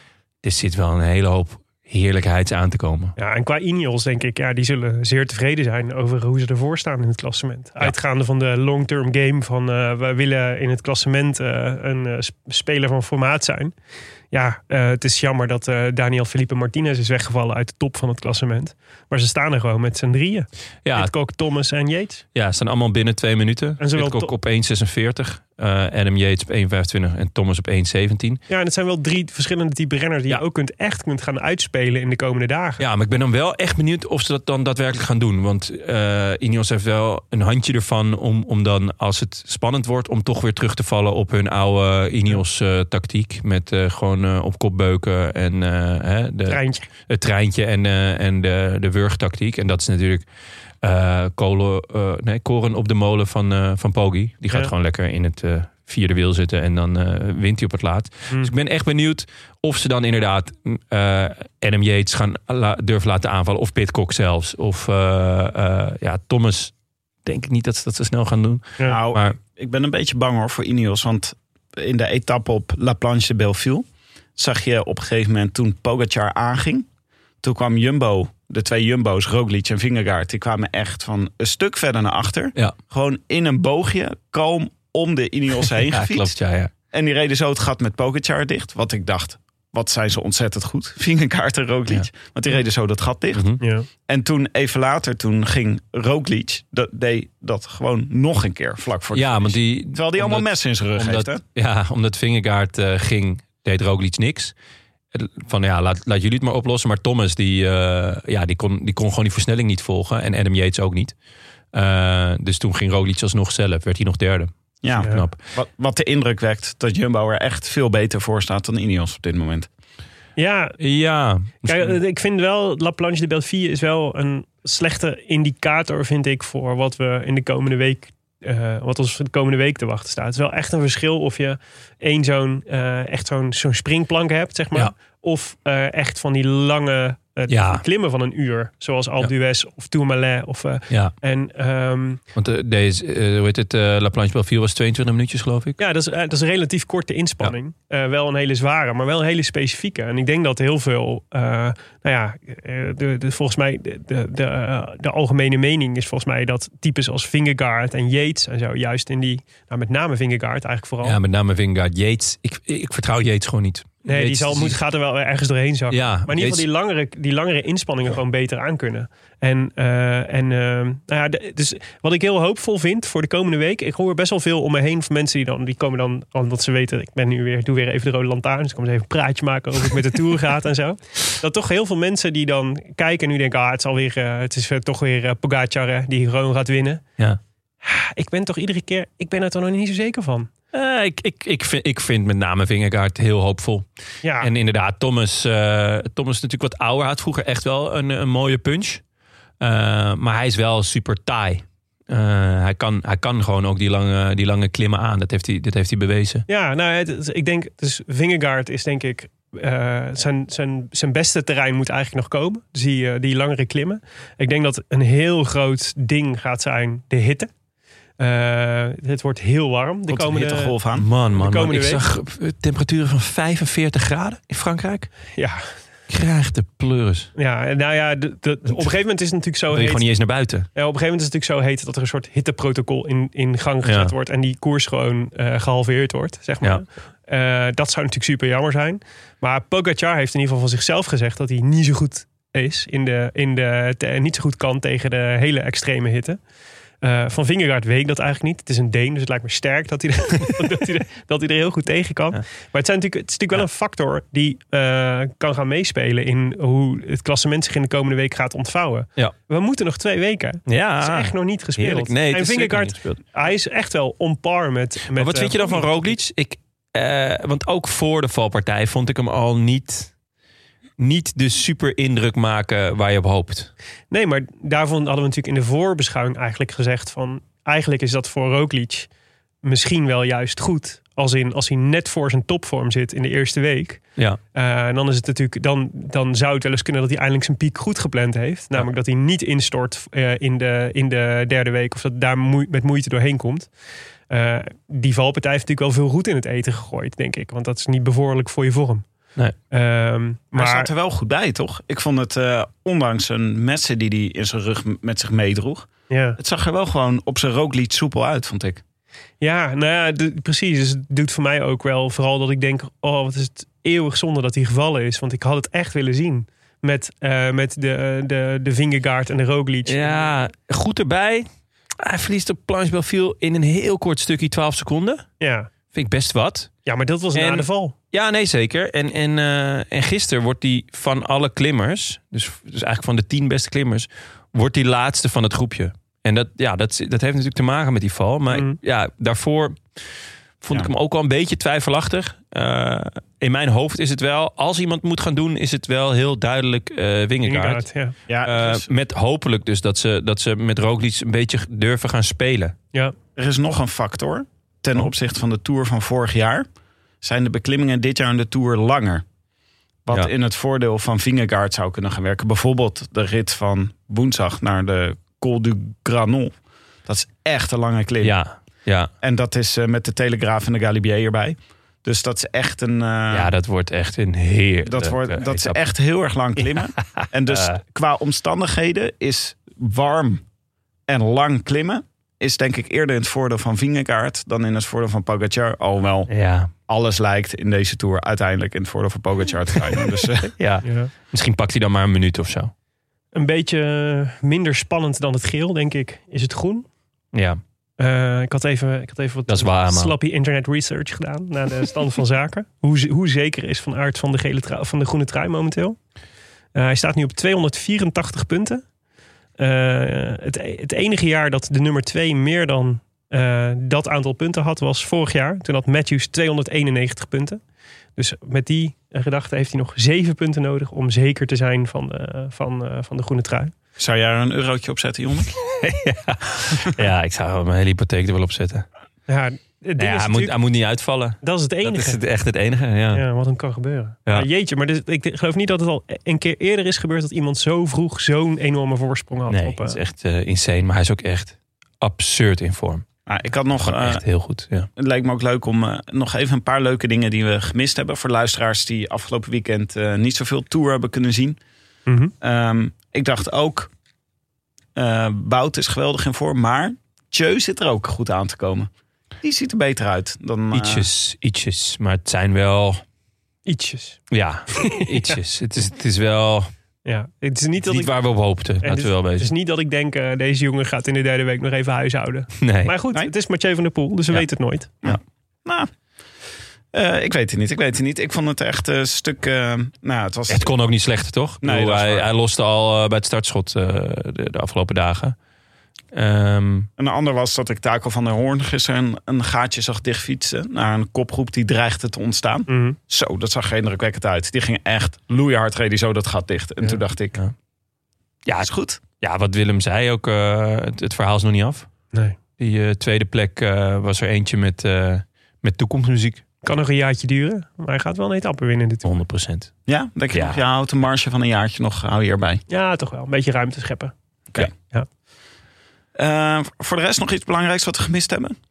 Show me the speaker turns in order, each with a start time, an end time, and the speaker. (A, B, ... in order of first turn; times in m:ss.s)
0:00.4-0:03.2 A
0:03.2-0:13.7 B
0:14.3-0:22.2 B
0:20.8-0:21.1 A
0:22.4-0:28.4 A
0:23.8-0:24.3 B
0:28.5-0:32.8 B
0:32.8-0:50.2 A
0:46.5-0:46.9 B
0:50.8-1:06.7 A
1:07.2-1:09.4 A
1:08.8-1:16.9 C
1:17.4-1:26.3 C
1:25.9-1:26.7 A
1:26.9-1:33.5 C
1:33.3-1:33.6 A
1:33.6-1:33.9 B
1:34.1-1:41.4 C
1:39.1-1:44.5 A
1:45.1-1:51.1 A
1:51.7-1:55.4 A
1:54.8-1:59.7 C
2:00.4-2:00.8 B
2:00.8-2:02.0 A
2:01.6-2:22.2 B
2:17.5-2:17.8 A
2:22.4-2:25.8 A
2:25.8-2:41.2 B
2:41.0-2:44.8 A
2:44.1-3:07.0 B
2:45.9-2:46.6 A
3:07.8-3:10.5 B
3:10.7-3:13.9 A
3:14.2-3:14.5 B
3:14.4-3:19.0 A
3:19.6-3:26.4 A
3:26.5-3:37.5 B
3:38.2-3:40.8 B
3:40.1-3:41.1 C
3:41.0-3:45.1 A
3:41.3-3:42.0 B
3:45.3-3:45.7 B
3:46.1-3:47.3 A
3:47.4-3:50.0 B
3:49.7-3:50.7 A
3:50.8-4:06.4 B
3:53.8-3:54.1 A
4:07.0-4:26.2 B
4:20.7-4:23.2 A
4:25.1-4:30.1 A
4:31.0-4:33.7 A
4:34.1-4:39.1 B
4:39.6-4:44.0 B
4:44.6-4:53.7 B
4:54.3-4:59.0 B
4:59.7-5:00.9 B
5:00.5-5:08.8 C
5:06.1-5:06.4 B
5:09.4-5:20.3 B
5:19.9-5:21.5 A
5:22.0-5:25.3 A
5:25.4-5:25.7 B
5:25.9-5:26.7 A
5:26.9-5:28.0 B
5:27.3-5:39.8 A
5:38.5-5:38.8 B
5:40.6-5:47.8 A
5:47.4-5:48.2 B
5:48.3-5:48.9 C
5:48.4-5:52.8 A
5:53.4-5:56.7 C
5:57.2-5:59.2 C
6:00.1-6:08.4 C
6:08.2-6:09.1 A
6:09.2-6:13.5 C
6:13.3-6:15.8 A
6:14.8-6:20.4 C
6:16.8-6:17.8 A
6:21.1-6:26.3 C
6:26.3-6:26.7 A
6:26.9-6:30.5 C
6:30.4-6:32.7 A
6:30.8-6:31.1 B
6:33.3-6:36.9 B
6:37.3-6:37.6 A
6:38.0-6:46.0 B
6:39.5-6:40.1 A
6:46.8-6:48.8 B
6:49.6-6:57.6 B
6:58.2-7:03.7 B
7:04.0-7:05.5 C
7:05.7-7:08.9 A
7:09.3-7:10.6 B
7:10.0-7:13.2 A
7:11.4-7:12.2 B
7:13.1-7:20.0 B
7:19.5-7:23.0 A
7:23.3-7:24.2 C
7:23.8-7:24.9 A
7:25.0-7:31.6 C
7:32.1-7:32.3 B
7:32.4-7:33.9 C
7:35.0-7:38.9 C
7:39.4-7:41.1 C
7:40.7-7:43.0 A
7:43.7-7:45.4 B
7:44.3-7:46.7 A
7:47.1-7:48.1 B
7:47.8-7:49.5 A
7:48.8-7:54.9 B
7:52.6-7:53.0 A
7:55.0-7:55.9 C
7:56.9-8:00.7 C
8:00.5-8:05.4 A
8:01.6-8:02.3 C
8:06.1-8:06.9 A
8:07.0-8:17.4 C
8:12.7-8:13.0 B
8:18.5-8:21.9 A
8:18.6-8:19.0 C
8:22.6-8:26.4 A
8:26.6-8:29.1 B
8:29.0-8:29.7 A
8:29.9-8:32.6 C
8:30.3-8:30.6 A
8:32.7-8:34.1 B
8:36.2-8:38.6 C